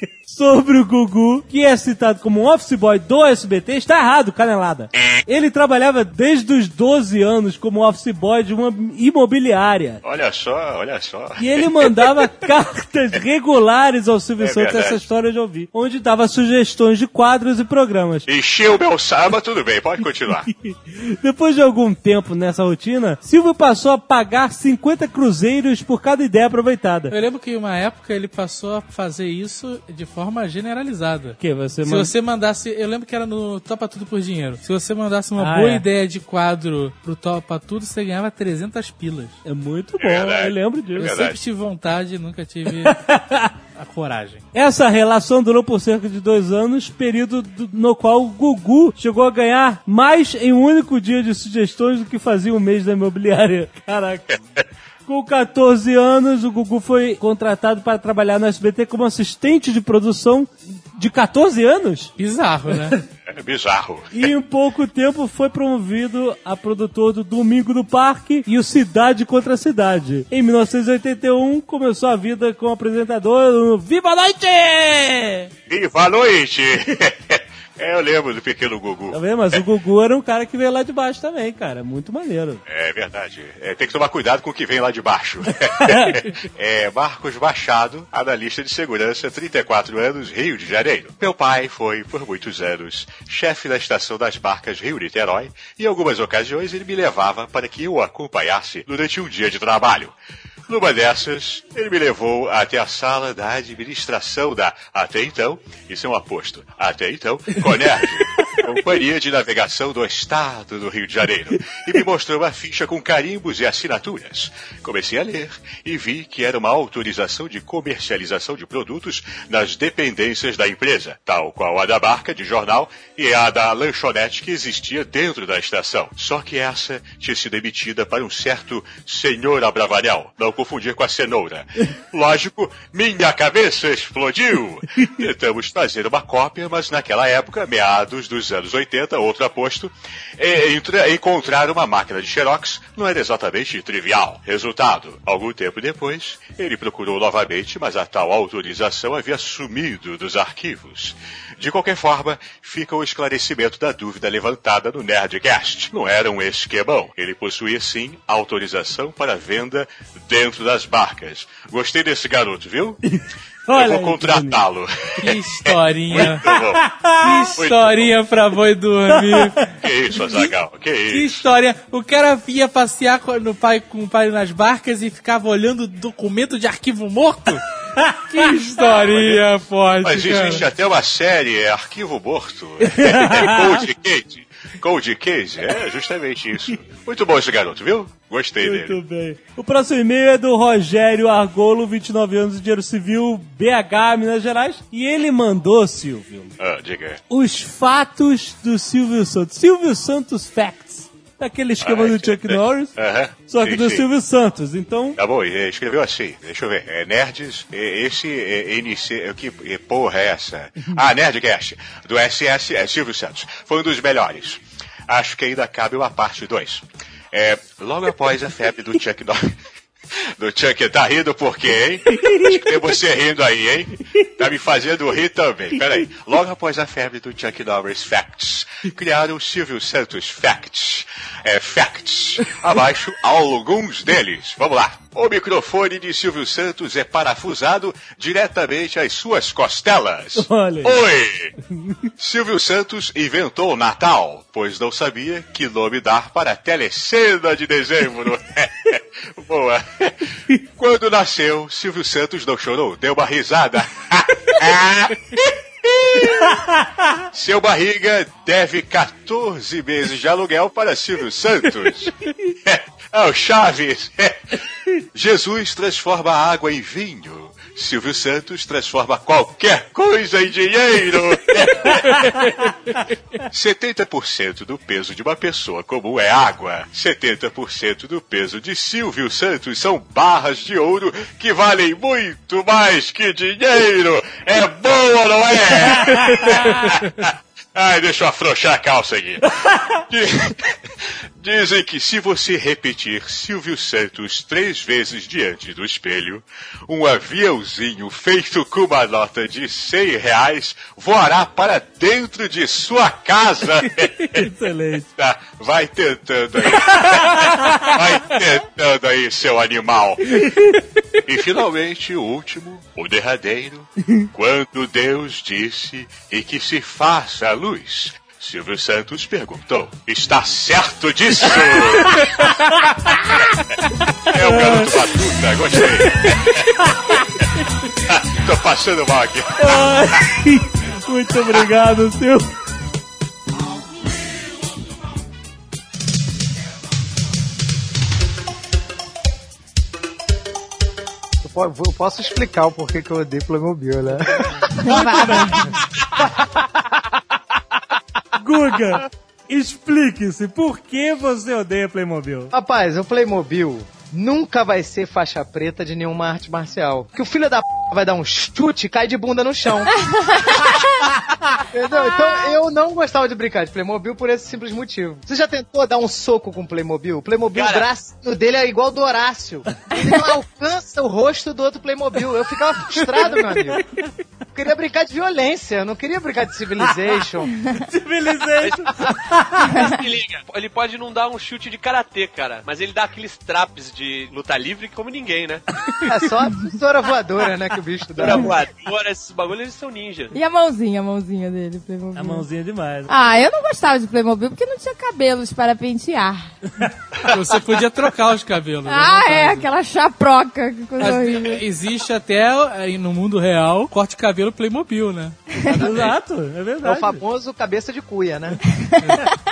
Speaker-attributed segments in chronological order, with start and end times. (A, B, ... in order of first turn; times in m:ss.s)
0:00.2-0:10.0 A
0:04.9-0:05.2 B
0:10.0-0:12.3 B
0:11.4-0:18.3 A
0:14.4-0:15.0 B
0:18.3-0:20.5 B
0:20.6-0:27.1 A
0:27.1-0:39.4 C
0:31.4-0:32.1 A
0:35.4-0:35.8 A
0:39.4-0:41.2 A
0:40.0-0:41.4 B
0:41.0-0:43.1 C
0:42.8-0:43.5 A
0:43.8-0:44.4 C
0:44.5-0:54.3 A
0:55.1-1:02.1 A
1:02.2-1:03.0 C
1:03.2-1:04.3 B
1:04.1-1:15.5 A
1:15.7-1:19.6 B
1:19.1-1:22.6 A
1:22.6-1:40.2 B
1:25.7-1:26.2 A
1:40.7-2:43.0 B
2:43.0-2:44.6 A
2:43.7-2:46.9 B
2:45.2-2:46.5 C
2:46.5-2:47.5 A
2:47.2-2:49.7 C
2:47.6-2:48.1 B
2:49.2-2:49.5 A
2:49.7-2:51.4 B
2:51.1-3:00.7 C
2:58.0-2:58.5 A
2:59.1-2:59.4 B
3:00.0-3:09.0 B
3:02.8-3:03.8 A
3:08.6-3:16.5 A
3:16.6-3:17.2 B
3:17.3-3:22.9 A
3:21.8-3:24.1 B
3:23.5-3:25.2 A
3:25.2-3:39.6 B
3:40.1-4:01.5 B
3:42.2-3:42.6 A
4:00.4-4:01.0 A
4:01.7-4:02.1 A
4:02.2-4:16.6 B
4:16.5-4:17.1 A
4:17.3-4:32.6 B
4:33.4-5:04.5 B
4:46.3-4:46.7 A
5:03.8-5:05.1 A
5:05.1-5:10.6 B
5:07.0-5:07.9 A
5:10.4-5:10.8 A
5:11.2-5:22.6 B
5:22.1-5:23.1 A
5:24.1-5:25.0 A
5:24.2-5:26.9 B
5:25.8-5:26.2 A
5:26.8-5:27.2 A
5:28.1-5:30.4 B
5:29.6-5:32.4 A
5:41.4-5:44.7 D
5:44.8-5:45.7 E
5:44.8-5:45.8 A
5:46.2-5:46.6 D
5:48.4-5:52.5 A
5:52.5-5:59.9 D
6:00.0-6:01.1 E
6:01.7-6:13.9 D
6:01.9-6:02.5 E
6:07.5-6:07.9 F
6:14.5-6:17.6 D
6:17.7-6:19.8 A
6:18.6-6:25.6 F
6:26.0-6:28.5 D
6:28.2-6:30.3 F
6:30.3-6:32.4 E
6:32.1-6:33.1 A
6:33.1-6:36.5 E
6:37.2-6:39.7 C
6:38.8-6:41.6 E
6:41.0-6:45.4 C
6:45.5-6:45.8 E
6:45.7-6:47.2 A
6:45.8-6:46.1 F
6:46.8-6:48.6 D
6:48.7-6:49.2 E